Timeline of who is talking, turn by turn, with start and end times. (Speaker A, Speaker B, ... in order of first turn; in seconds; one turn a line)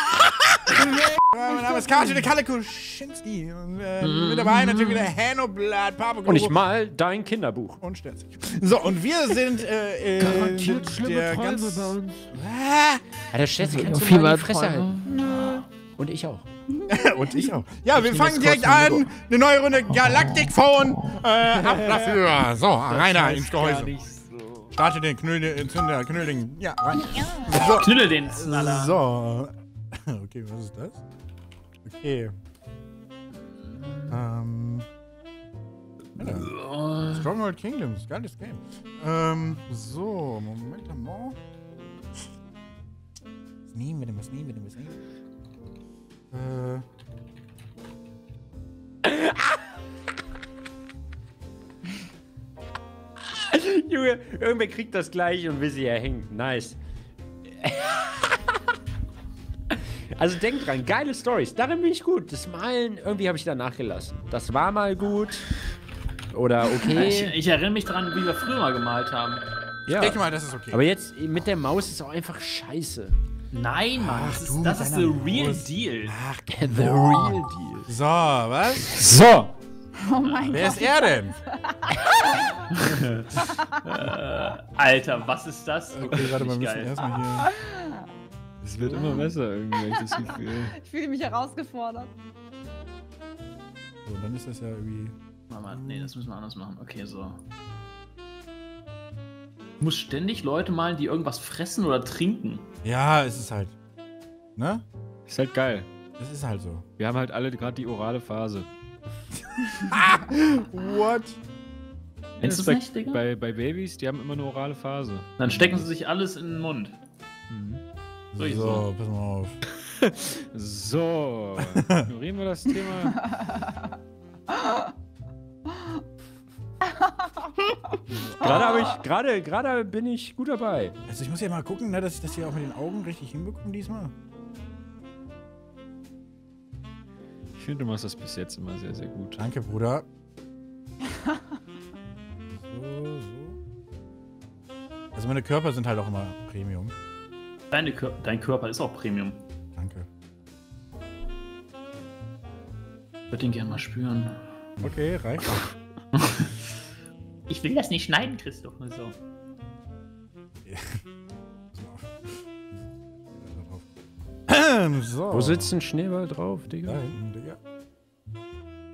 Speaker A: 0.8-6.6
Speaker B: 4.0-5.1
Speaker C: 6.2-7.8
Speaker A: 7.8-13.0
Speaker C: 10.2-12.2
Speaker C: 13.3-16.4
Speaker B: 13.8-15.0
Speaker A: 16.9-23.9
Speaker C: 18.0-19.0
Speaker D: 22.9-24.7
Speaker A: 24.7-29.5
Speaker B: 27.7-29.0
Speaker A: 30.1-31.0
Speaker A: 31.8-32.3
Speaker A: 34.1-34.9
Speaker A: 36.2-41.4
Speaker B: 36.2-37.3
Speaker A: 43.7-45.0
Speaker A: 46.3-46.8
Speaker C: 49.0-49.6
Speaker C: 53.3-56.8
Speaker C: 57.6-58.6
Speaker C: 59.7-65.7
Speaker C: 66.3-67.4
Speaker B: 66.8-69.4
Speaker C: 69.9-73.2
Speaker A: 70.0-70.8
Speaker B: 73.5-76.1
Speaker A: 74.0-78.9
Speaker C: 76.5-77.9
Speaker C: 78.8-79.5
Speaker E: 80.0-81.2
Speaker B: 80.2-80.7
Speaker A: 80.5-81.4
Speaker B: 82.7-87.1
Speaker A: 85.9-87.5
Speaker E: 87.4-87.9
Speaker A: 88.6-89.3
Speaker D: 88.7-90.7
Speaker E: 89.0-92.1
Speaker A: 94.0-95.1
Speaker B: 95.5-97.4
Speaker A: 95.7-96.1
Speaker B: 99.8-102.6
Speaker A: 102.8-103.7
Speaker A: 104.6-104.8
Speaker D: 105.3-105.9
Speaker A: 106.2-106.8
Speaker D: 107.0-108.7
Speaker A: 109.6-111.4
Speaker B: 112.4-113.2
Speaker D: 112.4-115.3
Speaker B: 115.4-117.0
Speaker A: 115.5-115.8
Speaker D: 117.5-117.8
Speaker A: 118.3-119.6
Speaker B: 118.3-118.8
Speaker D: 120.0-123.2
Speaker A: 121.6-122.1
Speaker A: 128.1-128.7
Speaker C: 128.4-130.9
Speaker A: 131.1-134.1
Speaker D: 137.6-139.4
Speaker A: 139.4-140.1
Speaker A: 142.5-143.6
Speaker A: 145.1-146.9
Speaker B: 147.7-149.4
Speaker A: 149.7-150.1
Speaker B: 153.3-154.3
Speaker A: 154.8-155.6
Speaker B: 156.2-156.5
Speaker B: 157.5-159.2
Speaker A: 160.6-161.0
Speaker A: 161.7-163.9
Speaker A: 164.5-165.7
Speaker C: 165.3-167.0
Speaker A: 166.8-167.6